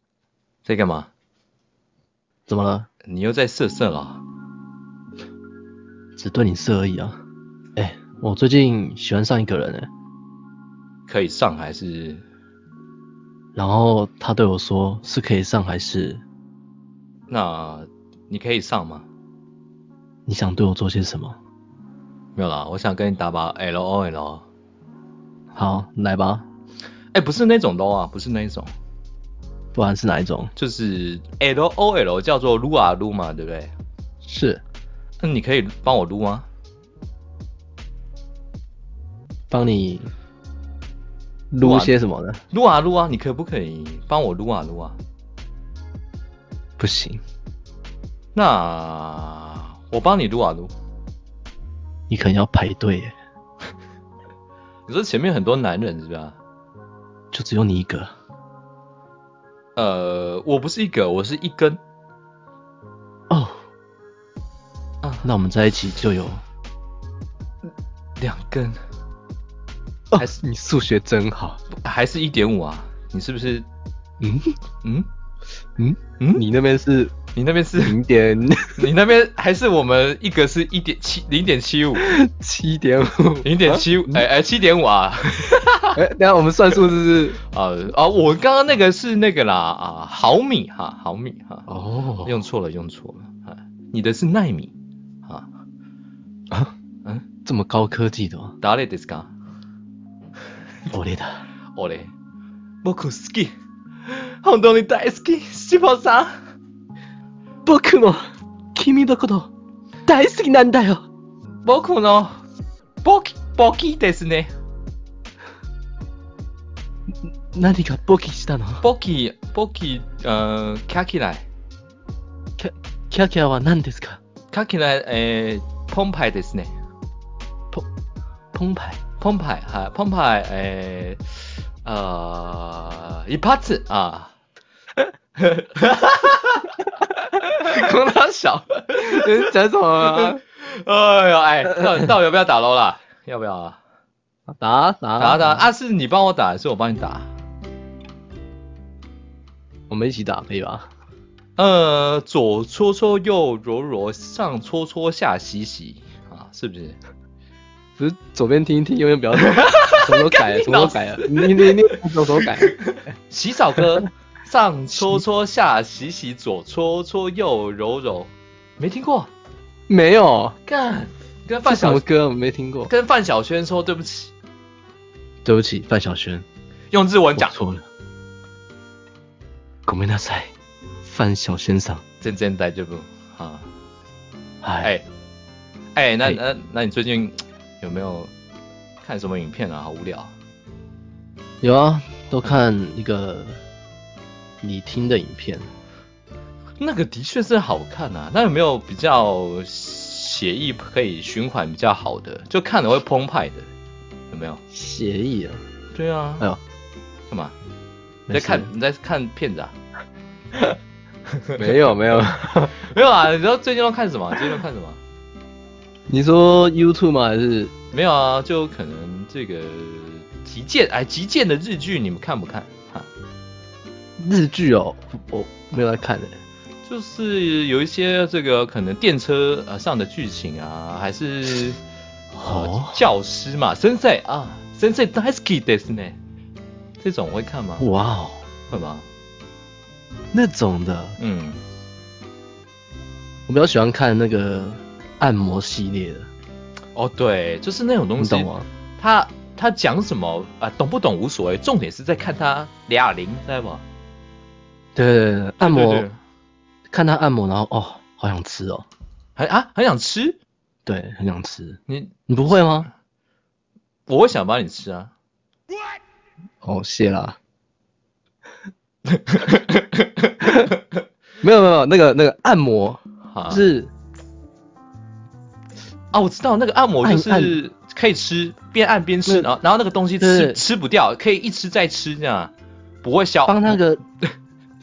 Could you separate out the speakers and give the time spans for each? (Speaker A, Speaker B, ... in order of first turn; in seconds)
Speaker A: 0.6-1.1, 3.1-4.2, 11.1-12.2, 17.3-19.1, 22.3-24.4, 27.1-28.7, 30.6-33.7, 35.2-36.5, 41.6-41.9, 42.5-45.0, 48.3-50.7, 54.9-56.4, 59.8-61.8, 65.0-65.3, 68.2-68.8, 71.8-73.7, 77.3-78.0, 78.8-82.1, 83.4-86.0, 87.5-91.7, 92.2-94.7, 98.6-99.3, 101.8-102.1, 102.8-103.5, 104.0-106.3, 111.6-112.4, 113.0-114.5, 118.8-121.4, 124.5-126.7, 129.2-134.3, 135.4-136.7, 137.7-138.0, 140.0-143.8, 145.2-147.3, 151.6-157.0, 159.4-169.3, 170.7-172.0, 172.9-174.3, 176.9-177.5, 182.2-183.7, 185.9-188.3, 189.0-190.3, 196.8-203.7, 204.3-204.6, 205.9-206.5, 207.3-207.5, 208.3-209.7, 211.4-211.9, 212.7-215.0, 217.9-223.1, 226.8-231.8, 232.4-236.2, 237.0-237.8, 238.7-239.1, 241.2-241.6, 246.9-253.8, 255.6-256.2, 259.4-260.4, 261.9-262.1, 264.1-265.1, 269.1-270.4, 273.3-273.7, 276.1-282.5, 283.0-283.8
Speaker B: 2.5-2.9, 6.2-7.2, 7.8-9.9, 13.5-16.2, 20.2-21.4, 25.5-26.4, 29.7-30.5, 34.2-34.6, 39.5-40.1, 41.5-42.4, 46.8-47.2, 52.1-53.1, 57.3-58.1, 63.3-63.6, 65.2-66.4, 70.1-71.6, 74.2-74.5, 75.8-77.1, 77.8-78.9, 82.0-84.2, 85.9-87.4, 91.7-92.3, 97.4-98.5, 100.9-101.4, 107.6-109.5, 110.0-111.0, 117.5-118.8, 122.6-124.2, 128.5-129.0, 137.4-140.4, 144.6-145.6, 149.9-150.9, 158.0-162.8, 169.9-170.6, 171.6-172.9, 175.4-176.4, 177.3-177.8, 179.8-180.5, 181.0-182.0, 184.6-184.9, 191.6-193.6, 194.6-195.7, 204.7-205.6, 208.3-208.7, 211.6-212.8, 216.1-217.7, 224.2-226.4, 232.3-233.0, 237.8-238.4, 240.3-241.2, 243.5-246.3, 248.2-248.7, 254.9-256.1, 256.9-258.9, 260.9-262.9, 266.6-267.4, 270.4-270.7, 271.4-273.9, 277.0-277.6, 280.2-280.6, 283.4-284.0